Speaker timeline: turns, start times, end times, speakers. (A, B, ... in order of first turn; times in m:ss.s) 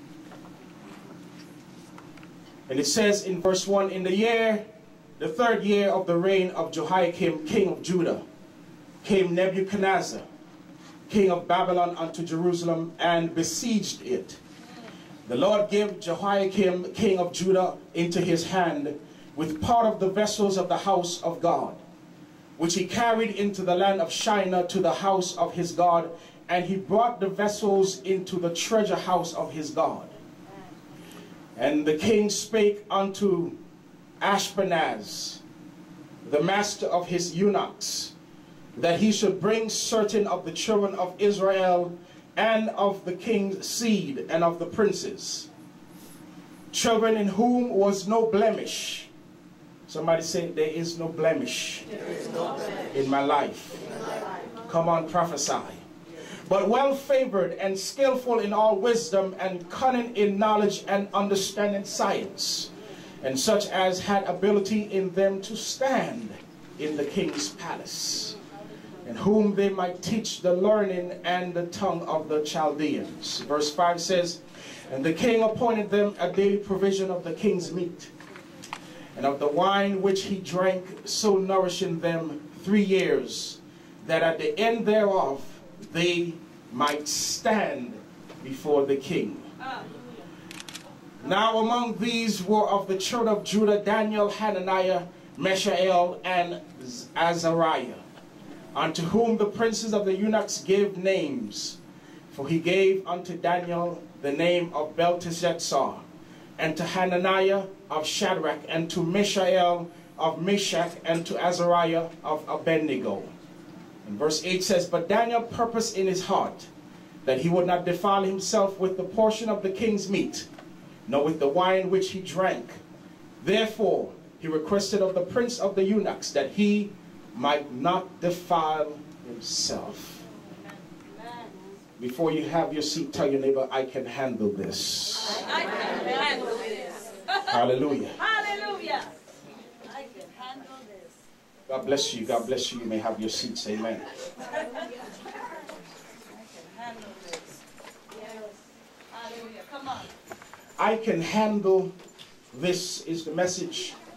0:02.7-0:04.6 A
0:05.2-0:08.2 A
0:09.0-0:10.2 A
0:11.1-0:14.4 A
0:15.2-0:21.8 A
0:22.6-0:30.1 A
0:31.6-0:33.6 A
0:34.2-0:35.4 A
0:36.2-0:38.1 A
0:38.8-0:45.5 A
0:46.7-0:49.1 A
0:49.9-0:51.8 A
0:52.9-0:53.8 A
0:54.7-0:55.8 A
0:56.5-1:02.7 A
1:03.2-1:08.4 A
1:09.0-1:18.1 A
1:19.2-1:29.5 A
1:29.6-1:29.9 B
1:31.2-1:38.0 A
1:38.7-1:41.8 A
1:42.3-1:46.0 A
1:46.6-1:53.3 A
1:54.0-1:56.7 A
1:57.2-2:00.5 A
2:01.1-2:02.8 A
2:03.4-2:10.2 A
2:11.2-2:11.5 B
2:12.0-2:15.4 A
2:15.4-2:17.5 B
2:17.5-2:18.2 A
2:18.2-2:19.1 B
2:19.8-2:21.1 B
2:21.7-2:24.1 A
2:26.3-2:27.6 B
2:29.1-2:30.1 B
2:30.8-2:31.9 A
2:32.5-2:34.0 A